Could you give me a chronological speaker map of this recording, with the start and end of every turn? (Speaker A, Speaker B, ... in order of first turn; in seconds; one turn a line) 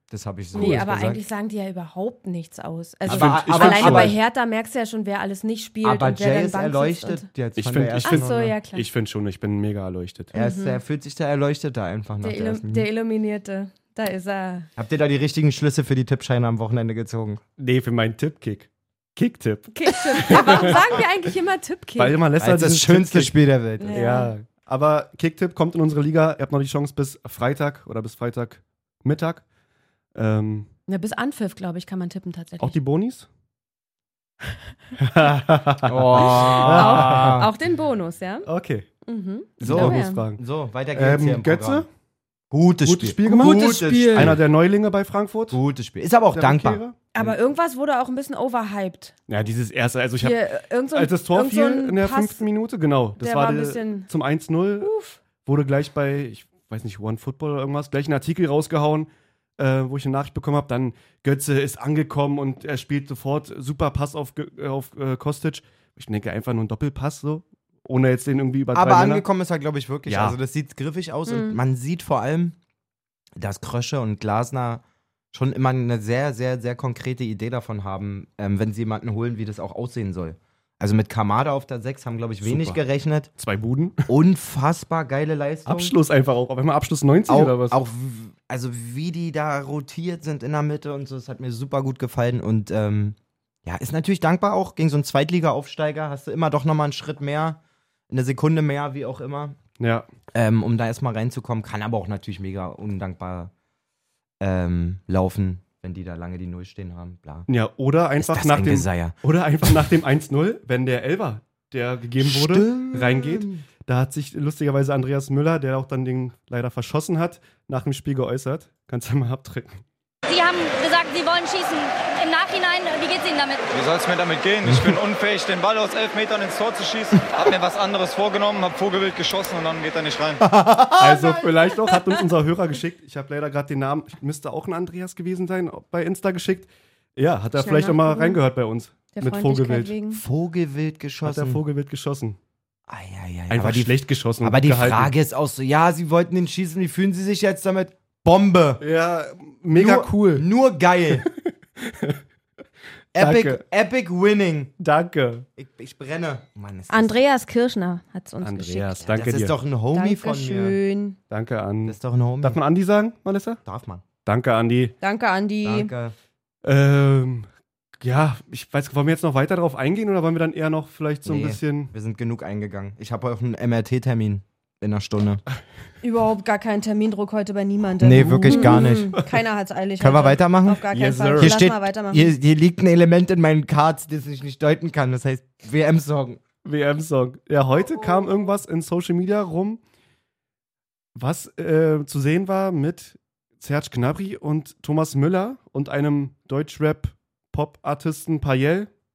Speaker A: 0.1-1.2
Speaker B: 0.5-7.3
Speaker C: 0.6-0.9
Speaker A: 3.1-4.2
Speaker C: 3.1-4.2
Speaker A: 5.8-8.5
Speaker C: 7.6-10.3
Speaker B: 8.0-8.9
Speaker B: 10.3-10.8
Speaker A: 10.3-12.9
Speaker B: 12.2-14.7
Speaker A: 14.8-17.4
Speaker C: 17.6-21.1
Speaker B: 19.7-22.2
Speaker C: 22.0-23.3
Speaker A: 22.4-24.0
Speaker B: 23.8-24.3
Speaker C: 23.9-29.4
Speaker C: 30.1-30.7
Speaker B: 30.9-32.8
Speaker C: 32.6-33.3
Speaker C: 35.0-37.5
Speaker A: 35.8-37.5
Speaker B: 36.1-38.5
Speaker C: 38.5-38.9
Speaker B: 39.1-40.3
Speaker A: 39.6-41.9
Speaker C: 39.6-40.4
Speaker C: 40.9-41.9
Speaker A: 42.5-44.4
Speaker C: 42.8-45.6
Speaker B: 43.3-44.4
Speaker A: 45.5-46.8
Speaker C: 46.3-47.4
Speaker B: 47.1-49.1
Speaker C: 49.3-54.9
Speaker B: 50.2-52.4
Speaker B: 53.2-54.1
Speaker B: 54.8-55.2
Speaker C: 55.4-69.3
Speaker A: 68.7-72.6
Speaker C: 70.1-70.4
Speaker B: 71.3-71.6
Speaker A: 73.4-83.3
Speaker C: 82.4-82.8
Speaker C: 83.4-84.1
Speaker A: 84.1-86.0
Speaker C: 85.7-87.8
Speaker A: 87.3-97.6
Speaker A: 98.1-99.6
Speaker C: 99.8-100.1
Speaker A: 100.3-103.5
Speaker A: 104.4-107.5
Speaker C: 107.5-119.8
Speaker A: 108.2-109.2
Speaker A: 112.2-113.7
Speaker D: 120.3-123.7
Speaker E: 123.7-130.4
Speaker A: 124.7-125.0
Speaker A: 130.4-131.7
Speaker C: 131.0-139.9
Speaker B: 137.6-138.4
Speaker B: 139.1-140.2
Speaker A: 140.1-141.6
Speaker C: 141.2-142.4
Speaker A: 142.9-148.8
Speaker C: 143.5-145.1
Speaker C: 148.8-150.5
Speaker A: 149.7-151.3
Speaker C: 151.1-152.2
Speaker A: 153.1-154.7
Speaker C: 153.2-153.6
Speaker C: 154.8-155.5
Speaker A: 155.6-157.2
Speaker B: 156.9-159.0
Speaker C: 158.4-159.6
Speaker A: 159.1-160.8
Speaker B: 159.9-161.2
Speaker C: 161.3-163.6
Speaker A: 161.9-162.6
Speaker A: 163.7-164.0
Speaker C: 164.2-164.9
Speaker B: 165.0-165.9
Speaker A: 165.6-166.2
Speaker C: 166.6-167.5
Speaker C: 168.0-171.9
Speaker A: 171.2-175.4
Speaker B: 176.0-182.3
Speaker A: 178.0-179.2
Speaker C: 178.1-179.4
Speaker A: 180.0-180.8
Speaker C: 180.9-181.6
Speaker A: 181.4-186.4
Speaker C: 186.6-189.8
Speaker C: 191.2-198.9